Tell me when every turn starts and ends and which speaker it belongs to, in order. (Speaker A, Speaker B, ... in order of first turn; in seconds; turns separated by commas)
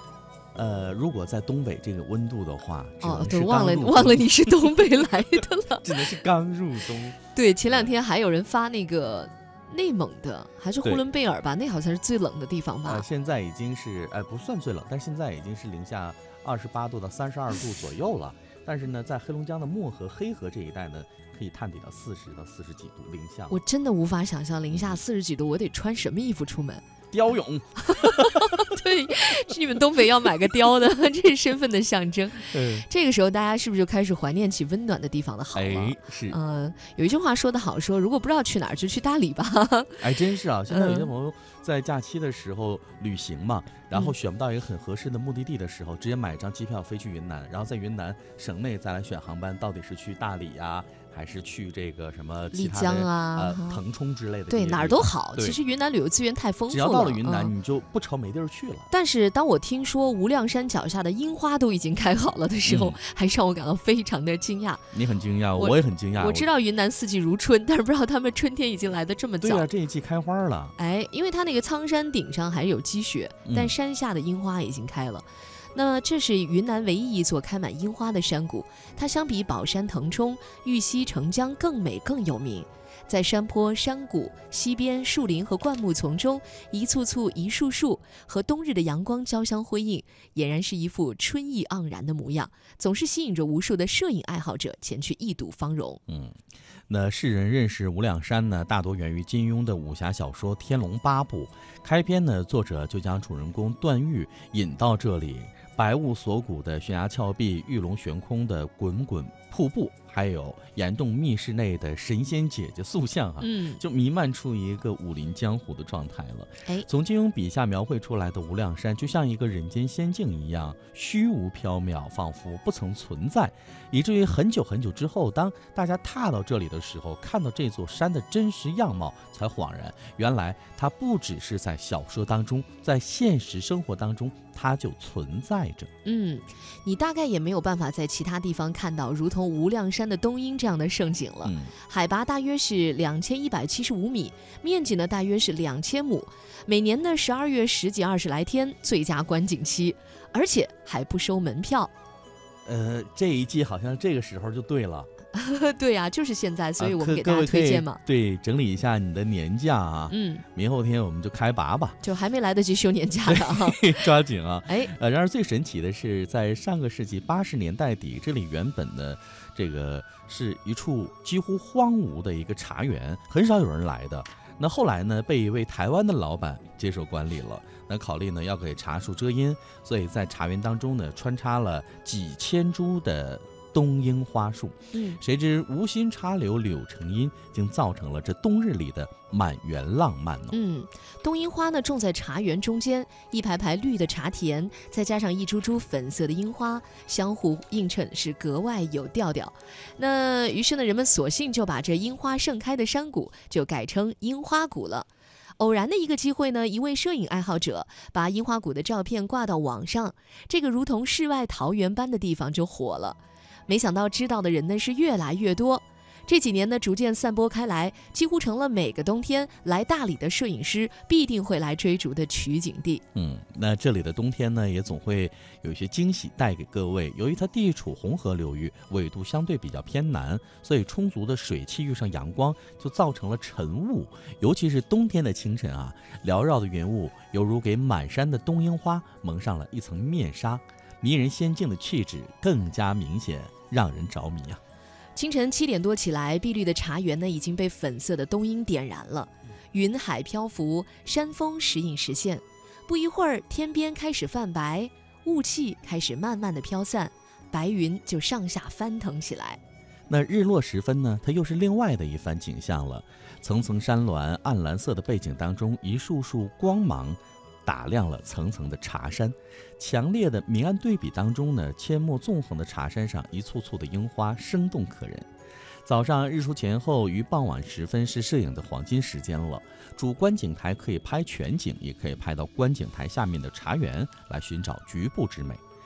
Speaker A: 0.6-4.5, Speaker B: 3.0-6.2, Speaker A: 5.8-7.9, Speaker B: 7.3-13.1, Speaker A: 12.9-23.6, Speaker B: 23.5-26.8, Speaker A: 24.7-25.0, Speaker A: 27.1-28.7, Speaker B: 27.9-40.0, Speaker A: 32.5-32.9, Speaker A: 35.5-36.4, Speaker A: 40.0-55.6, Speaker B: 40.7-41.1, Speaker B: 52.5-53.8, Speaker B: 54.5-57.5, Speaker A: 56.7-58.9, Speaker B: 58.9-64.9, Speaker A: 62.6-63.0, Speaker A: 64.9-66.5, Speaker B: 65.6-69.7, Speaker A: 69.4-70.8, Speaker B: 70.8-96.0, Speaker A: 73.5-73.7, Speaker A: 96.1-96.4, Speaker A: 96.9-135.9, Speaker B: 113.4-113.8, Speaker B: 136.0-151.9, Speaker A: 141.4-141.7, Speaker A: 152.7-155.1, Speaker B: 155.3-158.0, Speaker A: 156.8-162.0, Speaker B: 160.1-160.4, Speaker B: 162.0-164.0, Speaker A: 163.3-190.6, Speaker B: 164.7-164.9, Speaker B: 184.9-185.2, Speaker B: 190.5-223.0, Speaker A: 223.2-244.6, Speaker B: 245.2-259.6, Speaker A: 260.1-275.3, Speaker A: 275.8-285.6